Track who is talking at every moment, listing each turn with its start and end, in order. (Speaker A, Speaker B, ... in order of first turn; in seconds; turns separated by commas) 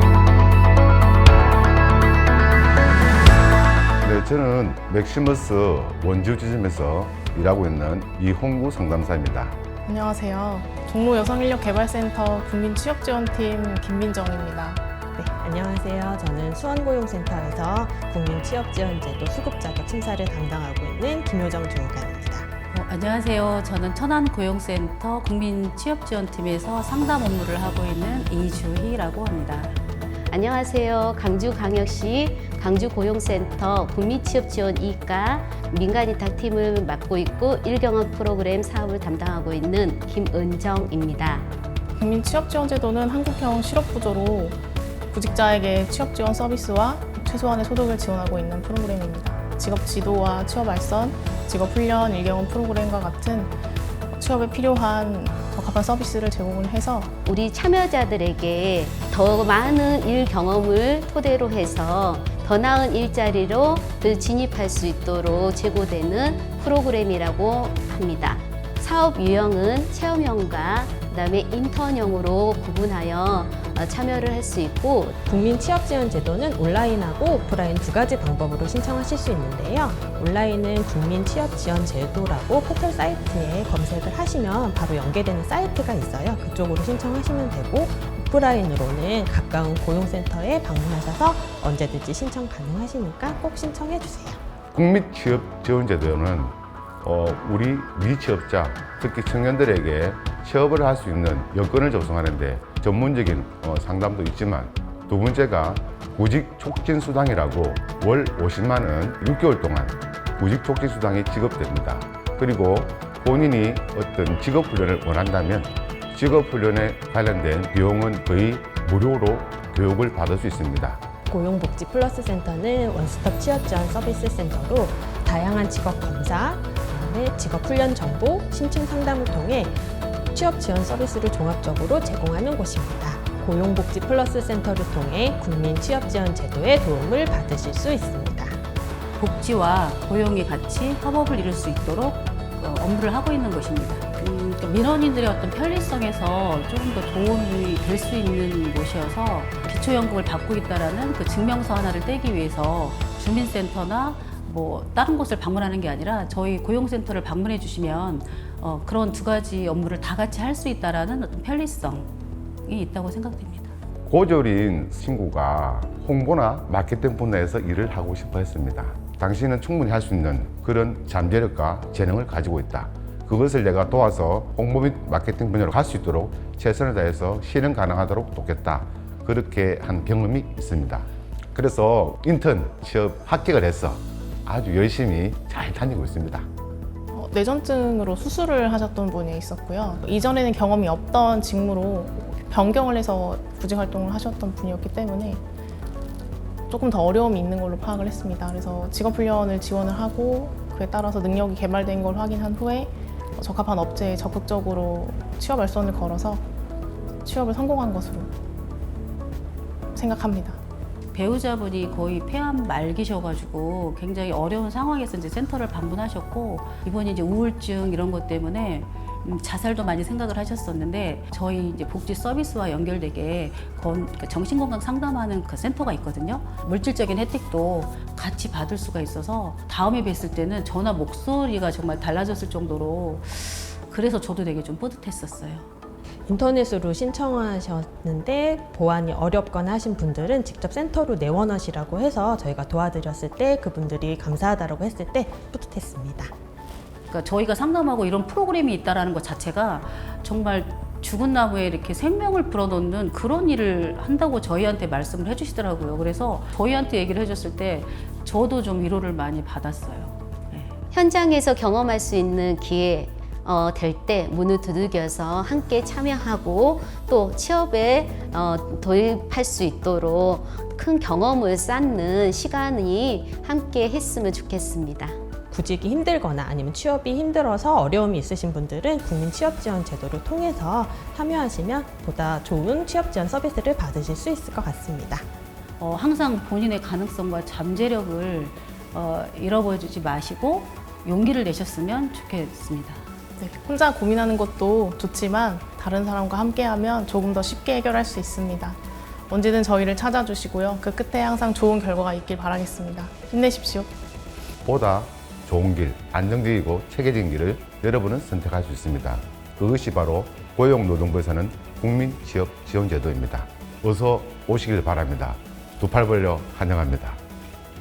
Speaker A: 4.0-9.6, Speaker B: 9.8-14.8, Speaker C: 15.1-22.5, Speaker D: 22.7-29.8, Speaker E: 30.3-41.5, Speaker B: 42.0-44.6, Speaker B: 45.1-53.5, Speaker B: 54.1-57.1, Speaker E: 57.2-75.2, Speaker C: 75.2-94.4, Speaker A: 94.7-121.0, Speaker C: 121.3-129.8, Speaker C: 130.3-138.6, Speaker D: 139.2-162.1, Speaker D: 162.7-163.7, Speaker A: 164.1-186.5, Speaker B: 187.1-195.4, Speaker B: 196.7-206.4, Speaker B: 207.2-208.3, Speaker B: 209.9-210.6, Speaker D: 211.1-235.7, Speaker C: 236.3-246.3, Speaker D: 247.1-260.8, Speaker E: 260.9-275.2, Speaker C: 275.5-285.2, Speaker D: 285.8-293.0, Speaker B: 293.4-303.9, Speaker A: 304.6-317.2